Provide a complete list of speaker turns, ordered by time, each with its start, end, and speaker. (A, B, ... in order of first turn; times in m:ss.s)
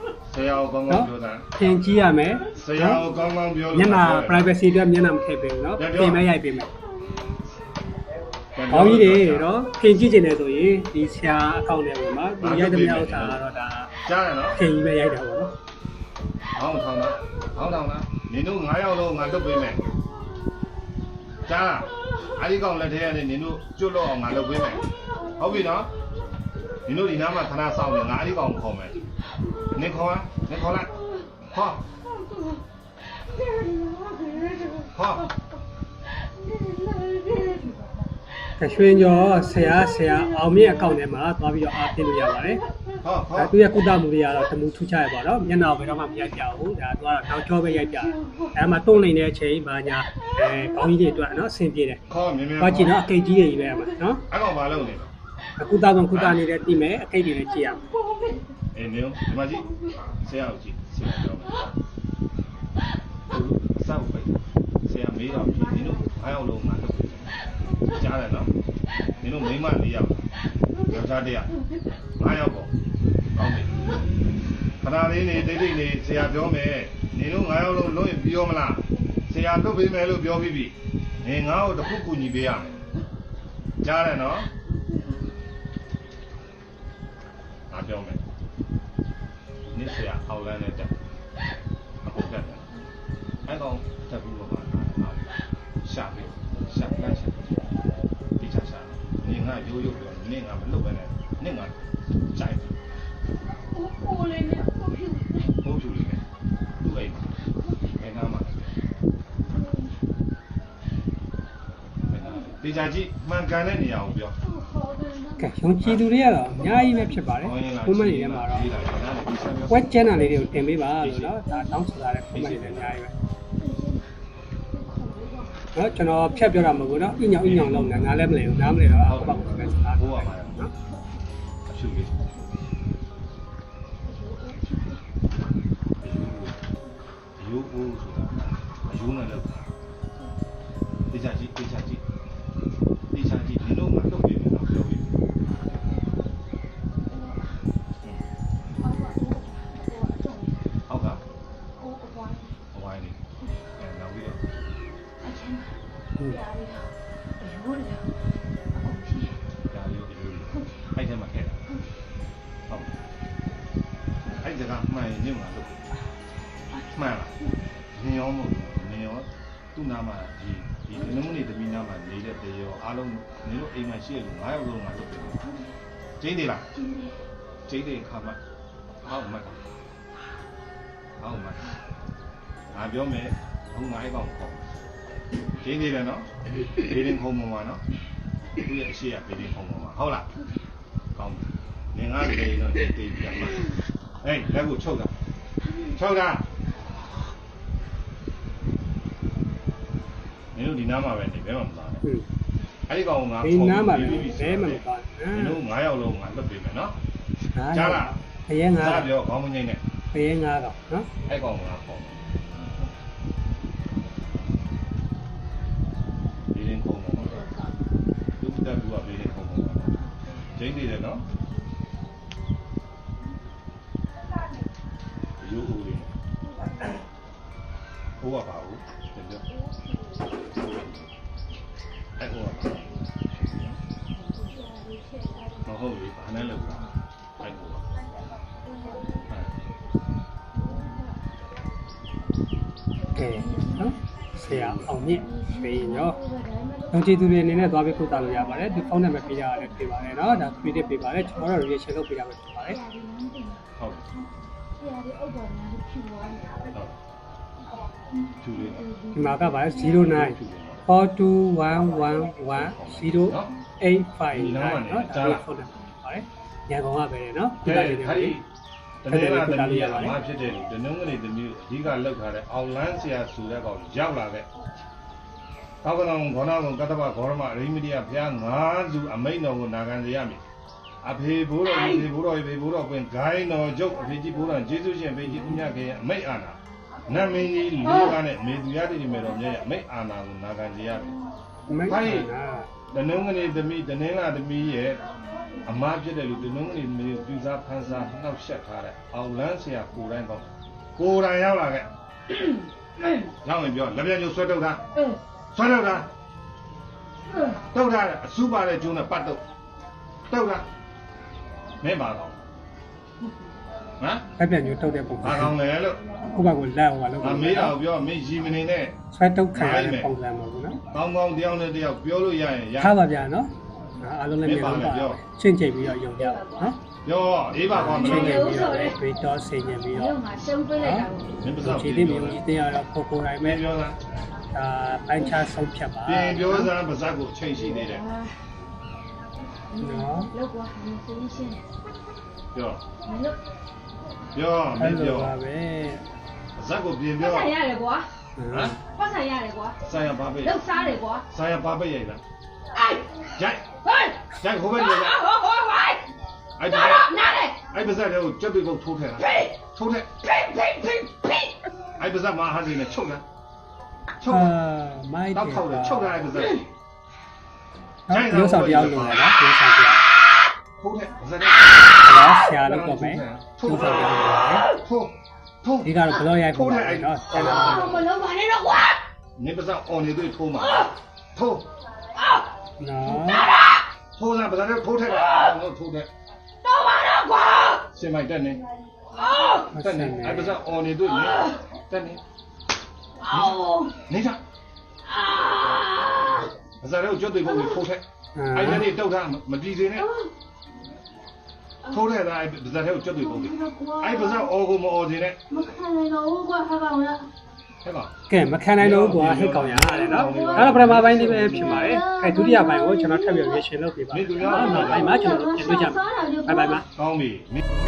0:00.3-0:01.5 A
0:00.9-0:03.0 B
0:02.6-0:04.6 A
0:03.7-0:06.7 B
0:05.8-0:06.2 A
0:08.5-0:09.5 A
0:08.7-0:13.9 B
0:12.4-0:13.4 A
0:14.0-0:14.6 A
0:14.5-0:15.5 B
0:16.5-0:19.9 A
0:21.4-0:25.9 A
0:26.8-0:29.0 A
0:29.7-0:30.9 A
0:31.5-0:31.9 A
0:32.1-0:32.6 C
0:33.3-0:35.0 C
0:34.9-0:35.3 A
0:36.4-0:37.8 C
0:38.6-0:42.6 B
0:38.9-0:40.4 C
0:43.0-0:43.6 A
0:43.3-0:52.0 B
0:48.0-0:48.5 C
0:52.1-0:53.0 A
0:52.6-0:54.2 B
0:54.3-0:55.1 A
0:55.6-0:57.8 B
0:56.1-0:56.4 A
0:57.7-0:58.5 C
0:58.7-1:01.7 A
1:03.3-1:04.3 A
1:04.8-1:08.5 A
1:05.4-1:05.9 C
1:09.2-1:10.2 A
1:10.8-1:11.5 A
1:12.2-1:12.7 A
1:13.3-1:13.9 A
1:14.8-1:22.8 A
1:23.8-1:24.5 A
1:27.7-1:28.2 A
1:29.7-1:30.9 A
1:32.0-1:32.7 A
1:33.4-1:35.3 A
1:35.8-1:37.7 A
1:38.4-1:42.7 A
1:43.6-1:45.6 C
1:45.6-1:46.2 A
1:46.8-1:47.3 A
1:47.9-1:48.8 A
1:49.6-1:49.9 C
1:52.1-1:54.4 A
1:54.4-1:55.6 C
1:55.4-1:58.7 B
1:55.8-2:01.4 A
1:59.7-2:03.1 B
2:02.3-2:03.0 A
2:03.6-2:04.1 C
2:04.7-2:06.9 C
2:05.7-2:10.7 B
2:07.4-2:08.2 A
2:09.0-2:10.7 A
2:11.7-2:12.2 A
2:14.0-2:15.0 C
2:16.0-2:16.6 A
2:17.4-2:19.7 A
2:21.1-2:22.0 A
2:23.1-2:25.1 A
2:27.1-2:27.5 C
2:28.8-2:30.7 C
2:30.9-2:31.2 A
2:31.8-2:32.6 C
2:32.7-2:33.2 A
2:33.8-2:34.4 A
2:35.2-2:39.4 C
2:39.7-2:41.6 A
2:40.6-2:40.9 C
2:42.7-2:43.0 A
2:44.2-2:45.9 A
2:46.9-2:47.3 A
2:47.9-2:55.4 A
2:56.2-2:56.7 A
2:56.8-2:57.1 C
2:57.7-2:58.4 A
2:59.0-2:59.6 A
3:01.2-3:01.6 A
3:02.7-3:04.6 A
3:05.6-3:07.8 A
3:08.6-3:10.3 A
3:11.1-3:13.7 A
3:14.2-3:15.1 A
3:15.9-3:16.4 A
3:20.5-3:22.0 A
3:22.9-3:27.0 A
3:23.4-3:25.6 B
3:27.5-3:29.1 B
3:27.7-3:28.2 A
3:28.7-3:29.8 A
3:30.1-3:31.1 B
3:31.2-3:32.1 A
3:36.5-3:37.5 A
3:37.3-3:37.6 C
3:38.4-3:40.0 A
3:40.6-3:41.2 A
3:45.4-3:46.1 A
3:48.2-3:49.4 A
3:50.6-3:51.1 A
3:52.2-3:53.8 A
3:54.4-3:55.6 C
3:55.6-3:57.8 A
3:58.9-3:59.2 C
4:03.1-4:06.2 B
4:03.3-4:04.0 C
4:04.4-4:05.2 A
4:05.2-4:11.6 C
4:06.9-4:12.8 B
4:12.7-4:16.7 C
4:13.8-4:14.0 A
4:16.7-4:17.0 A
4:18.4-4:18.8 A
4:18.8-4:19.7 C
4:19.1-4:28.4 B
4:19.6-4:20.9 A
4:22.5-4:23.5 A
4:24.3-4:25.4 A
4:27.6-4:28.4 A
4:29.0-4:34.5 A
4:29.1-4:30.2 B
4:35.8-4:40.4 A
4:41.0-4:51.2 A
4:41.8-4:42.0 C
4:51.7-4:52.7 B
4:51.8-4:52.3 A
4:52.9-4:55.0 A
4:55.6-5:01.9 A
5:03.4-5:04.8 A
5:05.5-5:06.1 A
5:07.6-5:09.4 A
5:10.3-5:10.7 A
5:11.8-5:12.4 A
5:14.0-5:14.2 A
5:14.4-5:15.5 B
5:15.2-5:16.0 A
5:16.3-5:17.8 B
5:17.2-5:19.0 A
5:19.1-5:20.8 B
5:19.5-5:20.1 A
5:20.9-5:23.0 A
5:22.8-5:26.8 B
5:24.4-5:25.2 A
5:26.1-5:26.7 C
5:27.0-5:28.6 A
5:27.7-5:30.2 B
5:27.9-5:29.0 C
5:29.9-5:31.4 C
5:30.8-5:31.1 B
5:31.4-5:32.4 A
5:31.6-5:33.6 B
5:33.4-5:34.0 A
5:34.5-5:36.7 B
5:36.0-5:38.0 A
5:37.8-5:38.3 C
5:39.7-5:41.6 C
5:39.8-5:40.3 B
5:42.5-5:42.8 A
5:43.0-5:43.4 C
5:44.3-5:45.4 A
5:44.8-5:46.0 B
5:46.6-5:47.6 A
5:47.2-5:48.1 C
5:48.4-5:48.8 B
5:48.5-5:48.8 A
5:48.9-5:49.8 C
5:49.8-5:50.7 A
5:50.4-5:51.2 C
5:51.3-5:52.2 A
5:52.7-5:53.2 C
5:53.4-5:53.6 A
5:53.8-5:54.3 C
5:54.3-5:55.2 A
5:54.8-5:56.1 C
5:56.6-5:57.1 A
5:56.7-5:57.6 C
5:57.7-6:00.2 A
5:59.2-5:59.6 C
6:00.3-6:01.5 C
6:02.0-6:03.2 A
6:04.2-6:04.5 A
6:04.3-6:06.2 B
6:05.3-6:06.7 A
6:08.1-6:10.0 B
6:08.1-6:09.4 A
6:10.8-6:18.1 A
6:12.0-6:14.7 B
6:15.8-6:18.0 B
6:17.3-6:19.0 C
6:19.4-6:21.7 A
6:22.2-6:22.4 C
6:22.8-6:23.5 B
6:23.1-6:23.4 A
6:23.4-6:23.8 C
6:24.2-6:26.1 A
6:26.6-6:27.8 C
6:27.9-6:28.6 A
6:29.1-6:29.7 C
6:29.7-6:30.5 B
6:29.7-6:32.2 A
6:31.2-6:31.6 C
6:33.2-6:33.9 C
6:33.3-6:34.4 A
6:35.0-6:36.5 C
6:36.8-6:40.1 A
6:38.3-6:38.9 B
6:40.0-6:40.3 C
6:41.9-6:45.4 A
6:43.2-6:44.5 C
6:45.5-6:47.3 C
6:47.8-6:48.1 A
6:48.3-6:56.8 B
6:48.8-6:52.0 A
6:49.9-6:50.8 C
6:51.8-6:53.6 C
6:54.1-6:55.2 A
6:54.4-6:56.9 C
6:56.9-6:57.6 A